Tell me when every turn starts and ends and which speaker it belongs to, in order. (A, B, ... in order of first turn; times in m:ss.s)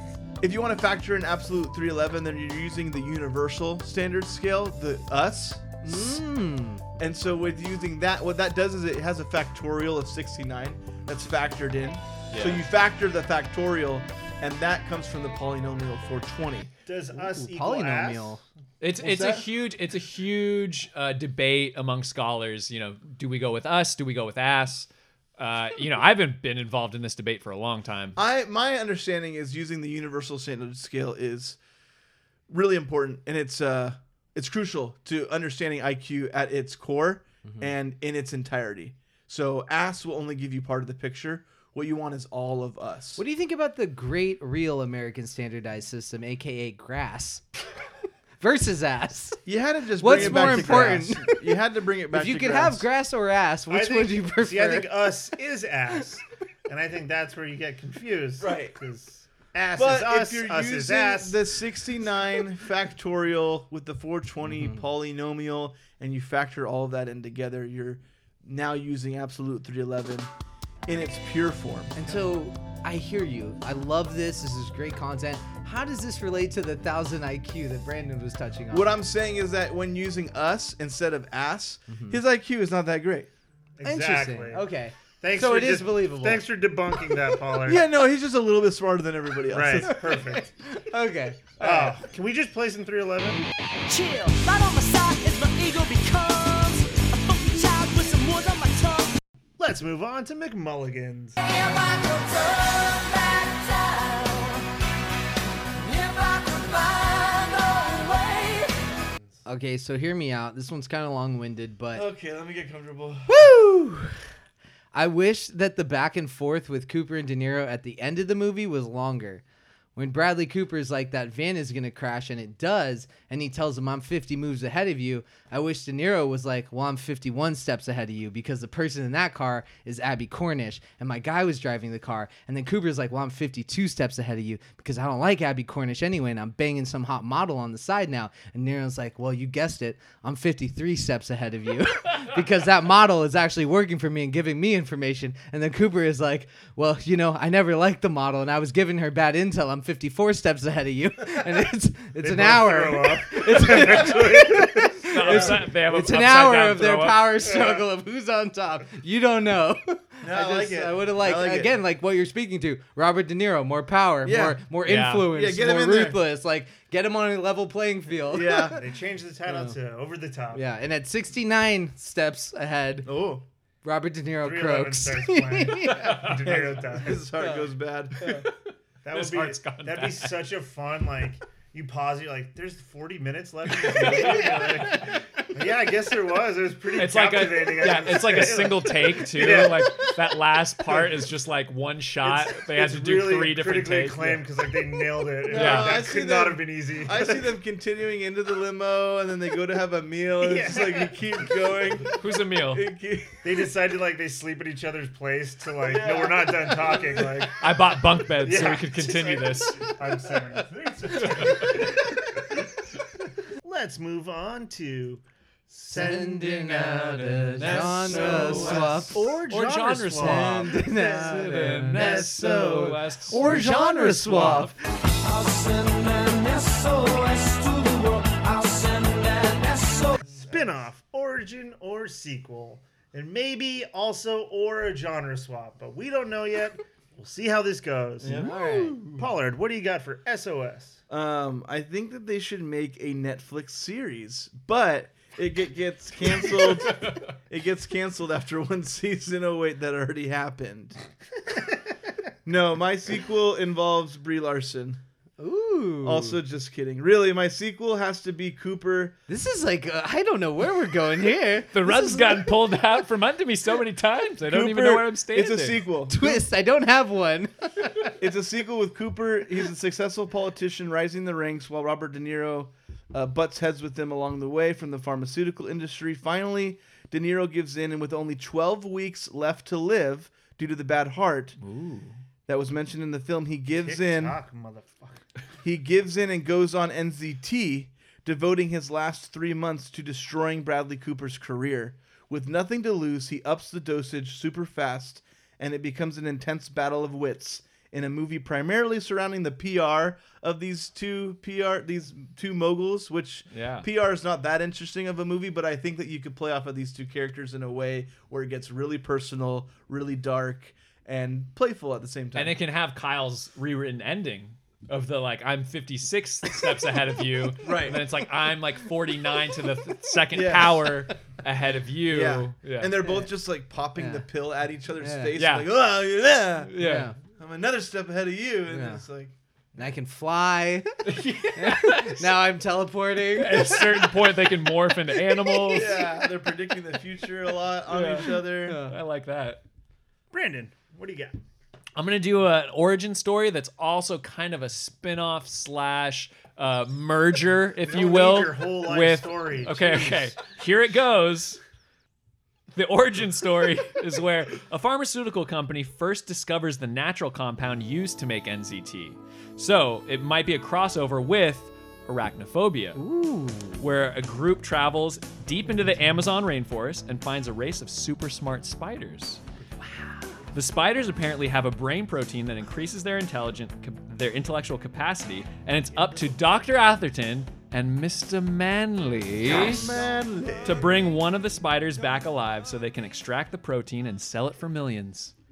0:00.4-0:06.2 A
0:05.8-0:06.8 B
0:07.0-0:16.7 A
0:12.3-0:12.6 C
0:16.8-0:18.4 D
0:17.1-0:18.4 B
0:18.8-0:28.1 C
0:19.0-0:19.4 A
0:28.2-0:31.6 A
0:32.5-0:43.2 A
0:43.2-0:47.6 B
0:48.4-0:49.4 B
0:49.4-0:52.8 A
0:50.0-0:51.4 B
0:50.2-0:51.0 D
0:52.1-0:54.9 B
0:53.7-1:01.4 D
0:58.4-0:58.8 A
0:59.8-1:10.3 A
1:04.4-1:04.8 B
1:10.9-1:12.2 A
1:11.9-1:18.9 B
1:18.7-1:23.3 A
1:21.9-1:22.2 B
1:23.8-1:24.7 D
1:23.8-1:26.4 B
1:25.2-1:27.8 D
1:27.6-1:30.2 A
1:29.5-1:30.5 D
1:29.8-1:31.8 B
1:31.6-1:33.4 D
1:33.9-1:39.1 E
1:39.6-1:41.4 D
1:41.4-1:44.6 E
1:45.8-1:48.9 E
1:49.4-1:52.0 B
1:51.9-1:53.4 A
1:53.3-1:54.1 B
1:54.9-1:59.4 B
2:00.0-2:48.8 B
2:32.2-2:35.4 D
2:35.1-2:37.4 C
2:37.4-2:37.8 D
2:40.2-2:41.8 A
2:44.2-2:44.6 A
2:44.8-2:45.3 C
2:45.2-2:46.2 A
2:48.2-2:48.8 A
2:48.8-2:50.6 D
2:49.5-2:49.7 B
2:50.5-2:53.1 B
2:53.0-2:53.4 A
2:53.8-2:56.2 B
2:54.4-2:57.2 D
2:56.4-2:58.4 A
2:57.3-2:57.7 B
2:59.0-3:10.1 D
2:59.1-3:00.4 C
3:03.8-3:05.0 C
3:03.9-3:04.9 A
3:06.9-3:14.4 C
3:12.2-3:17.5 D
3:15.4-3:23.7 A
3:15.5-3:16.0 C
3:20.4-3:21.2 D
3:22.2-3:22.8 C
3:23.4-3:27.6 D
3:25.8-3:27.5 A
3:27.6-3:29.9 C
3:28.4-3:32.2 D
3:33.6-3:42.2 D
3:35.9-3:39.2 B
3:37.6-3:44.7 C
3:40.2-3:44.8 B
3:45.2-3:50.2 E
3:50.3-4:01.0 D
3:58.2-3:58.6 A
3:58.3-3:59.0 B
4:01.1-4:11.0 A
4:12.4-4:15.0 A
4:15.4-4:16.4 B
4:16.0-4:19.2 A
4:19.3-4:22.5 B
4:21.7-4:25.8 C
4:24.4-4:26.4 A
4:26.1-4:28.0 B
4:28.2-4:41.6 A
4:41.6-4:42.1 C
4:42.5-4:44.4 A
4:43.8-4:45.2 D
4:45.6-5:12.6 A
5:03.5-5:03.9 C
5:12.3-5:22.9 C
5:17.6-5:18.0 A
5:20.3-5:21.1 A
5:22.1-5:26.7 A
5:23.0-5:23.3 B
5:24.0-5:24.2 B
5:25.0-5:25.3 B
5:25.4-5:25.8 C
5:26.6-5:27.1 C
5:26.8-5:27.2 B
5:27.4-5:29.3 A
5:28.7-5:29.0 B
5:29.8-5:34.1 B
5:31.0-5:32.2 C
5:33.3-5:36.1 C
5:35.7-5:38.8 A
5:37.9-5:39.6 C
5:38.6-5:38.9 B
5:40.3-5:41.4 D
5:42.0-5:51.6 C
5:47.8-5:50.4 D
5:52.7-6:03.0 C
6:02.9-6:03.8 B
6:03.8-6:09.4 C
6:10.5-6:19.9 C
6:19.4-6:21.1 A
6:20.6-6:25.3 C